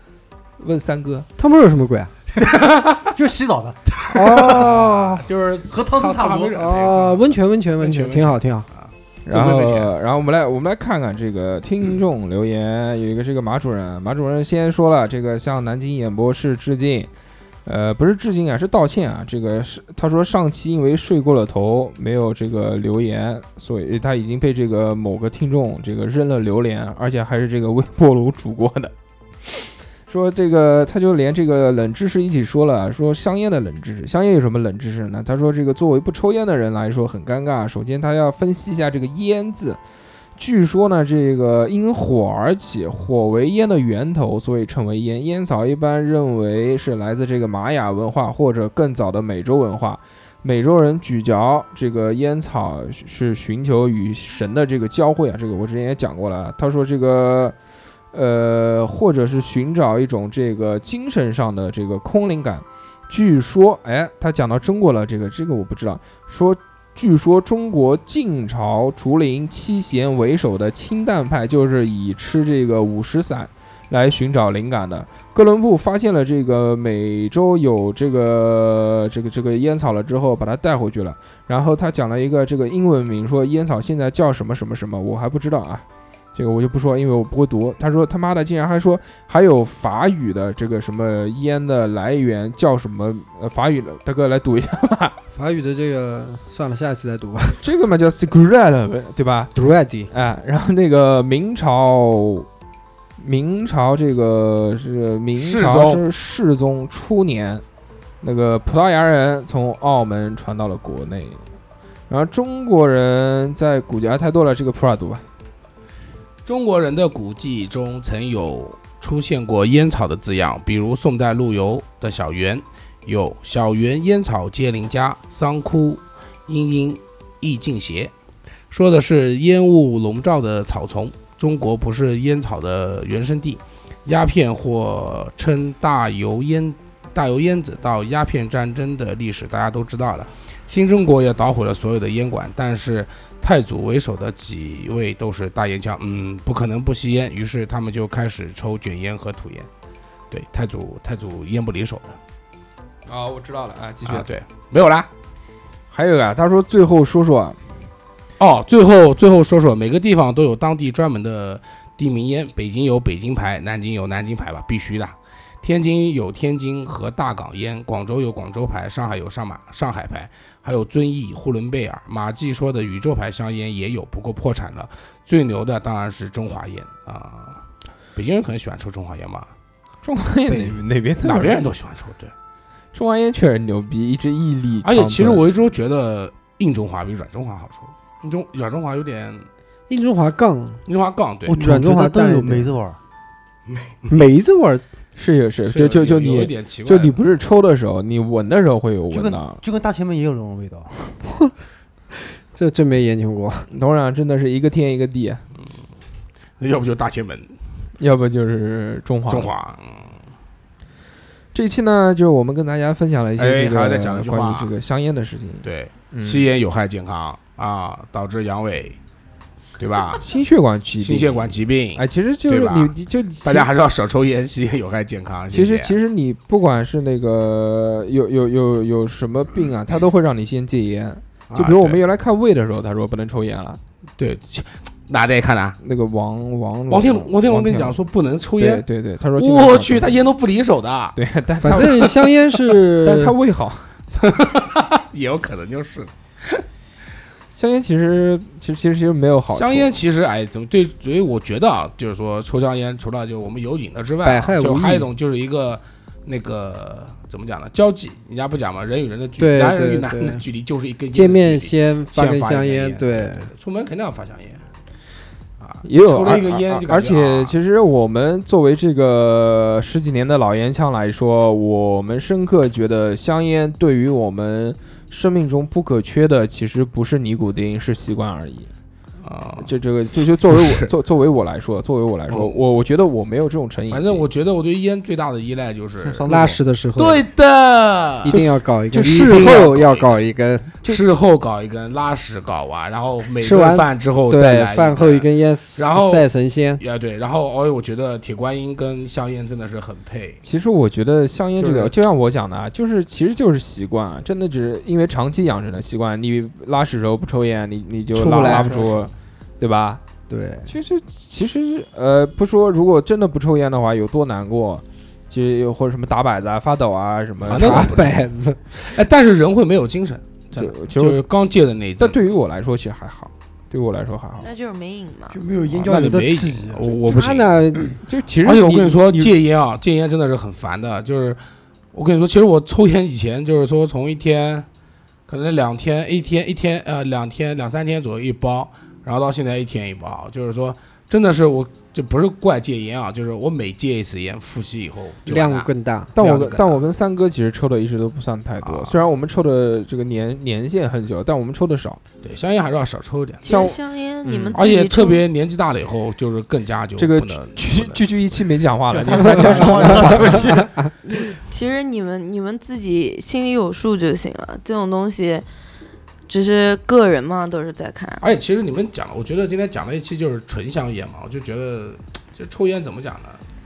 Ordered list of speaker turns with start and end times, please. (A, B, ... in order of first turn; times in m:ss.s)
0:00.6-0:01.3 A
0:01.4-0:02.1 B
0:02.5-0:03.0 C
0:03.0-0:06.6 D
0:04.1-0:05.2 B
0:04.4-0:09.9 C
0:06.5-0:08.6 B
0:09.2-0:17.1 A
0:17.6-0:28.9 A
0:29.4-0:39.8 A
0:40.4-0:57.6 A
0:58.1-1:35.1 A
1:35.3-1:37.6 B
1:37.6-1:39.5 A
1:39.5-1:40.1 B
1:40.1-1:42.5 A
1:43.2-1:47.6 A
1:45.4-1:46.0 C
1:48.2-1:51.4 A
1:52.1-1:55.2 A
1:56.4-2:08.1 C
2:08.7-2:29.7 C
2:30.3-2:32.2 C
2:33.1-2:34.3 A
2:34.0-2:35.1 C
2:35.9-2:37.6 A
2:38.4-2:57.6 C
2:58.1-2:59.5 C
3:00.0-3:01.6 A
3:00.5-3:02.3 C
3:02.9-3:05.4 A
3:04.8-3:09.5 C
3:09.9-3:10.8 B
3:10.8-3:11.6 C
3:11.5-3:13.0 D
3:11.5-3:12.7 B
3:13.7-3:14.1 C
3:14.1-3:14.8 B
3:15.2-3:19.6 A
3:15.6-3:17.2 C
3:19.1-3:20.9 D
3:22.5-3:23.7 B
3:23.7-3:25.4 A
3:26.6-3:27.5 C
3:28.0-3:29.5 A
3:29.3-3:30.1 C
3:31.5-3:36.5 A
3:33.4-3:34.7 C
3:35.6-3:39.0 C
3:39.8-3:40.2 C
3:40.2-3:43.7 A
3:41.0-3:45.9 C
3:45.5-3:53.8 A
3:51.5-3:52.0 C
3:54.2-3:55.8 C
3:55.8-3:58.0 A
3:56.9-3:58.8 C
3:58.6-4:00.2 A
3:59.4-4:01.2 C
4:01.1-4:02.0 A
4:01.6-4:03.4 B
4:01.7-4:02.2 C
4:03.0-4:03.9 A
4:04.2-4:06.6 C
4:07.6-4:09.9 A
4:09.5-4:24.6 C
4:14.2-4:15.1 B
4:19.4-4:20.4 B
4:21.1-4:23.5 B
4:25.6-4:27.5 C
4:25.8-4:38.7 A
4:39.2-4:39.7 C
4:39.6-4:44.2 A
4:40.5-4:40.9 C
4:42.3-4:42.6 C
4:43.9-4:50.2 C
4:46.3-4:47.2 B
4:48.2-4:50.9 B
4:50.8-5:00.4 C
4:53.4-4:56.8 B
5:00.4-5:10.0 A
5:01.6-5:01.9 C
5:08.1-5:09.0 B
5:08.4-5:08.9 C
5:10.3-5:10.7 B
5:10.6-5:18.0 A
5:17.4-5:18.2 C
5:17.5-5:18.6 B
5:18.7-5:22.2 C
5:20.5-5:21.2 A
5:22.0-5:24.5 A
5:24.4-5:25.4 E
5:25.3-5:27.3 D
5:25.7-5:27.6 C
5:27.1-5:28.0 B
5:28.0-5:29.3 A
5:28.4-5:31.4 C
5:31.9-5:34.7 C
5:35.3-5:46.8 C
5:45.2-5:46.1 B
5:46.1-5:52.0 A
5:48.6-5:49.0 C
5:52.2-5:53.5 C
5:53.4-5:55.2 E
5:53.4-5:54.6 A
5:54.5-5:58.1 C
5:57.0-6:00.6 A
5:58.9-6:00.7 D
5:59.3-6:00.6 B
6:01.1-6:05.5 E
6:06.3-6:08.2 E
6:08.2-6:13.4 C